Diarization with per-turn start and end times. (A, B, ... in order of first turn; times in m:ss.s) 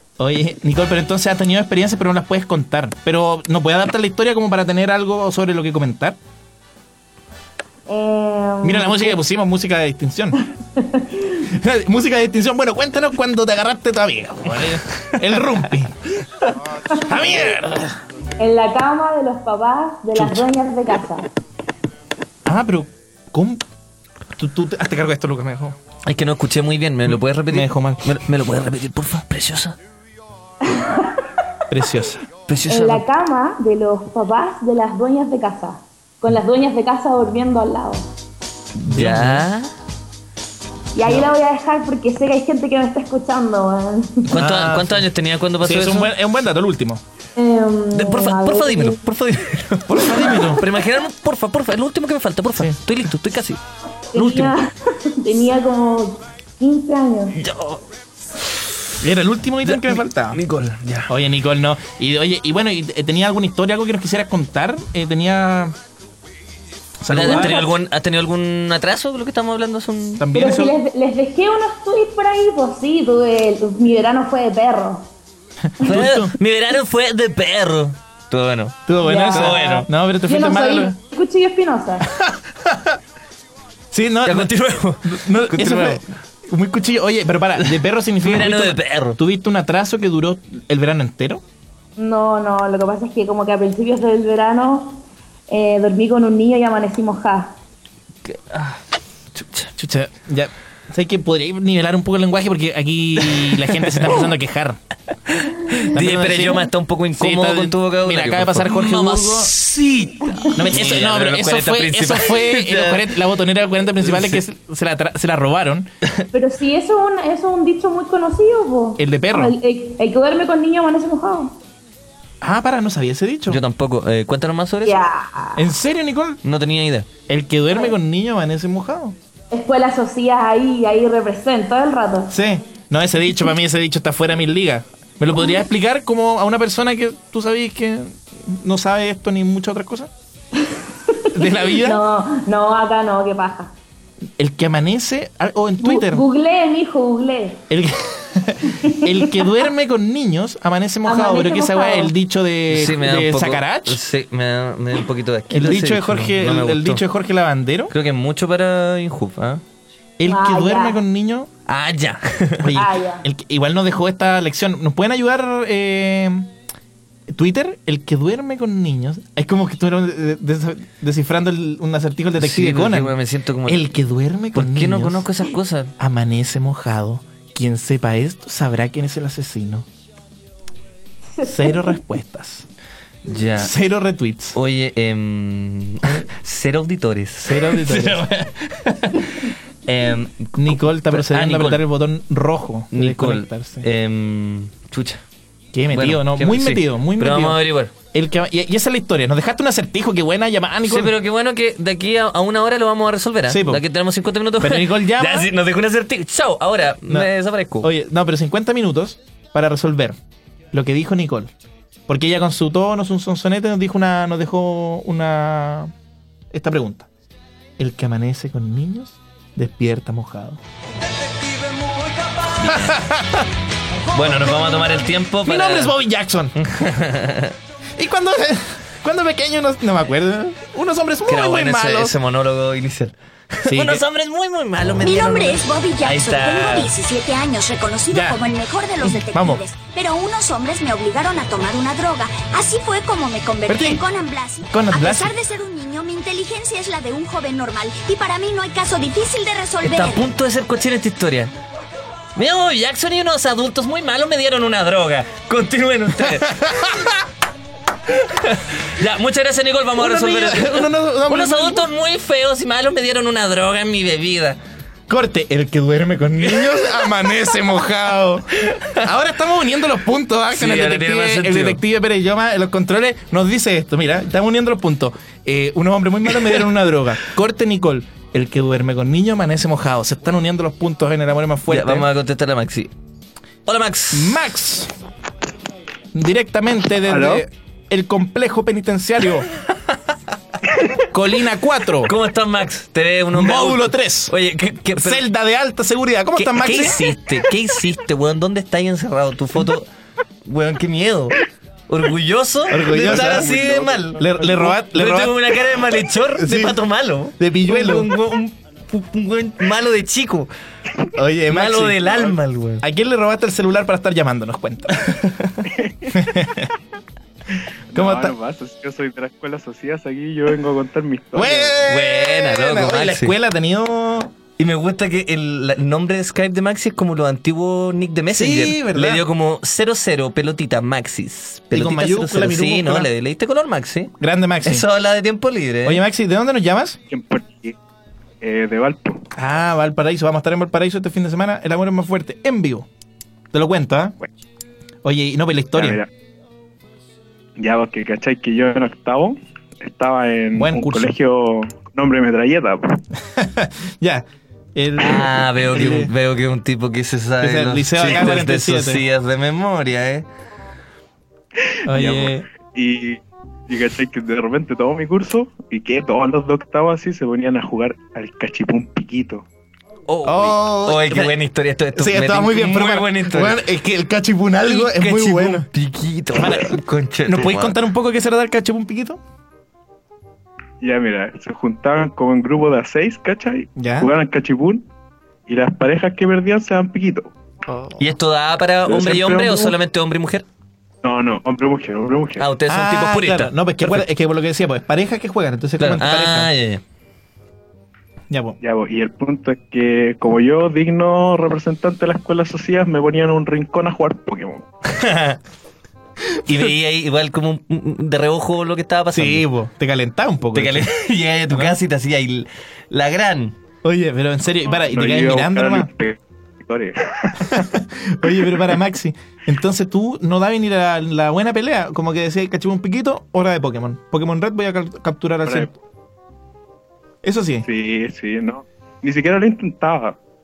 0:00.2-0:06.2 A
0:07.9-0:09.2 B
0:08.6-0:10.4 A
0:10.8-0:11.4 B
0:11.5-0:15.9 A
0:16.9-0:17.9 A
0:18.4-0:21.3 B
0:20.1-0:20.4 A
0:22.4-0:23.6 A
0:24.4-0:25.8 A
0:26.0-0:29.8 C
0:27.1-0:28.2 A
0:30.6-0:31.2 B
0:31.7-0:32.2 A
0:32.5-0:33.0 C
0:32.7-0:38.0 B
0:38.8-0:39.7 C
0:38.8-0:39.4 A
0:40.9-0:44.3 B
0:44.2-0:46.1 C
0:44.4-0:45.1 A
0:45.6-0:47.0 A
0:47.4-0:49.0 B
0:47.9-0:53.6 C
0:49.9-0:50.6 A
0:54.1-0:57.4 B
0:54.1-0:54.6 C
0:57.3-0:57.8 C
0:59.0-1:00.4 A
0:59.6-1:01.1 C
1:01.1-1:05.7 A
1:07.0-1:07.7 A
1:07.1-1:10.2 C
1:10.2-1:10.7 A
1:10.3-1:15.1 B
1:15.8-1:16.3 A
1:15.8-1:19.9 C
1:18.8-1:20.9 A
1:19.0-1:19.7 B
1:20.2-1:22.0 B
1:22.2-1:22.9 A
1:23.9-1:24.5 A
1:24.2-1:26.0 C
1:25.0-1:31.4 A
1:27.6-1:29.2 C
1:32.0-1:37.5 B
1:38.2-1:38.8 C
1:39.3-1:39.7 C
1:39.8-1:44.8 A
1:43.3-1:44.1 C
1:45.3-1:53.1 C
1:45.9-1:49.5 A
1:50.5-1:55.9 A
1:54.0-1:54.4 C
1:56.3-2:01.6 B
1:59.0-1:59.5 A
2:02.4-2:03.6 A
2:03.5-2:05.0 C
2:04.8-2:05.6 B
2:05.6-2:06.4 A
2:06.4-2:07.1 C
2:07.3-2:09.2 A
2:09.5-2:12.3 B
2:12.3-2:20.1 A
2:20.6-2:23.7 B
2:21.3-2:22.0 A
2:24.4-2:26.2 A
2:25.8-2:27.6 B
2:27.7-2:34.0 A
2:28.8-2:29.5 B
2:31.0-2:32.1 B
2:32.7-2:37.0 C
2:35.5-2:37.9 A
2:37.9-2:39.6 C
2:40.2-2:41.5 A
2:40.3-2:41.0 B
2:41.7-2:42.8 C
2:42.6-2:46.5 A
2:42.7-2:43.2 B
2:47.3-2:53.1 A
2:52.4-2:53.9 C
2:53.6-2:55.3 A
2:54.5-2:55.9 C
2:56.0-2:59.8 A
3:01.4-3:01.9 B
3:01.4-3:02.6 A
3:03.2-3:03.7 C
3:03.6-3:04.6 A
3:04.5-3:11.8 C
3:07.4-3:08.2 A
3:10.5-3:13.8 A
3:12.9-3:15.2 C
3:15.7-3:17.6 A
3:15.9-3:17.9 C
3:18.1-3:21.1 A
3:20.8-3:27.9 C
3:23.5-3:23.8 A
3:24.6-3:25.5 A
3:27.1-3:30.2 A
3:30.7-3:31.5 A
3:32.1-3:35.9 A
3:36.5-3:37.1 A
3:37.8-3:40.6 A
3:42.6-3:42.9 C
3:42.6-3:43.4 A
3:44.1-3:45.9 C
3:45.4-3:46.8 A
3:46.6-3:47.5 C
3:48.0-3:52.2 A
3:51.2-3:56.9 C
3:53.6-3:54.0 A
3:55.0-4:10.2 D
3:58.1-3:58.4 A
3:59.0-3:59.6 A
4:03.7-4:04.0 A
4:04.7-4:05.4 A
4:09.8-4:11.5 C
4:12.4-4:16.9 C
4:16.6-4:16.9 A
4:18.1-4:24.6 C
4:20.0-4:21.9 A
4:25.1-4:42.1 A
4:30.5-4:31.8 C
4:41.7-4:42.9 C
4:43.6-4:44.4 C
4:44.1-4:44.9 A
4:46.1-4:49.5 A
4:47.1-4:47.4 E
4:51.1-4:52.1 A
4:52.0-4:55.2 C
4:53.3-4:54.3 A
4:55.0-4:57.1 A
4:56.3-4:59.9 C
5:00.4-5:01.4 C
5:01.9-5:10.5 C
5:02.7-5:05.6 A
5:02.8-5:04.7 E
5:06.4-5:06.8 A
5:07.4-5:08.1 A
5:11.1-5:16.7 A
5:11.5-5:12.8 C
5:15.7-5:16.1 E
5:17.9-5:21.8 E
5:17.9-5:18.3 A
5:21.3-5:24.3 A
5:21.8-5:23.4 C
5:24.6-5:36.0 C
5:28.3-5:29.2 A
5:31.7-5:33.1 A
5:34.2-5:34.8 A
5:35.8-5:37.0 A
5:37.1-5:37.7 E
5:38.4-5:39.2 E
5:39.4-5:42.9 A
5:43.5-5:44.2 A
5:45.0-5:46.0 A
5:45.7-5:46.1 E
5:47.6-5:53.0 E
5:50.5-5:51.1 A
5:53.3-5:56.1 A
5:55.0-6:00.3 C
5:57.4-5:59.0 A
6:01.9-6:02.4 A
6:01.9-6:09.4 E
6:10.1-6:13.6 C
6:10.2-6:11.4 A
6:11.9-6:15.7 A
6:14.6-6:17.8 C
6:16.3-6:19.2 A
6:20.8-6:24.8 E
6:23.8-6:24.1 A
6:25.5-6:27.3 E
6:27.7-6:28.0 A
6:28.0-6:30.4 C
6:28.9-6:29.8 E
6:31.0-6:32.5 E
6:32.4-6:34.0 C
6:32.7-6:36.5 A
6:35.8-6:36.8 C
6:38.3-6:38.6 A
6:38.6-6:44.7 E
6:44.8-6:45.4 C
6:46.5-6:49.5 C
6:49.1-6:50.9 A
6:50.5-6:53.6 C
6:51.5-6:51.8 A
6:53.8-6:55.9 A
6:54.6-6:57.5 E
6:57.4-7:05.7 A
6:58.2-6:58.7 E
7:05.4-7:05.7 E
7:07.2-7:07.7 A
7:07.6-7:10.2 E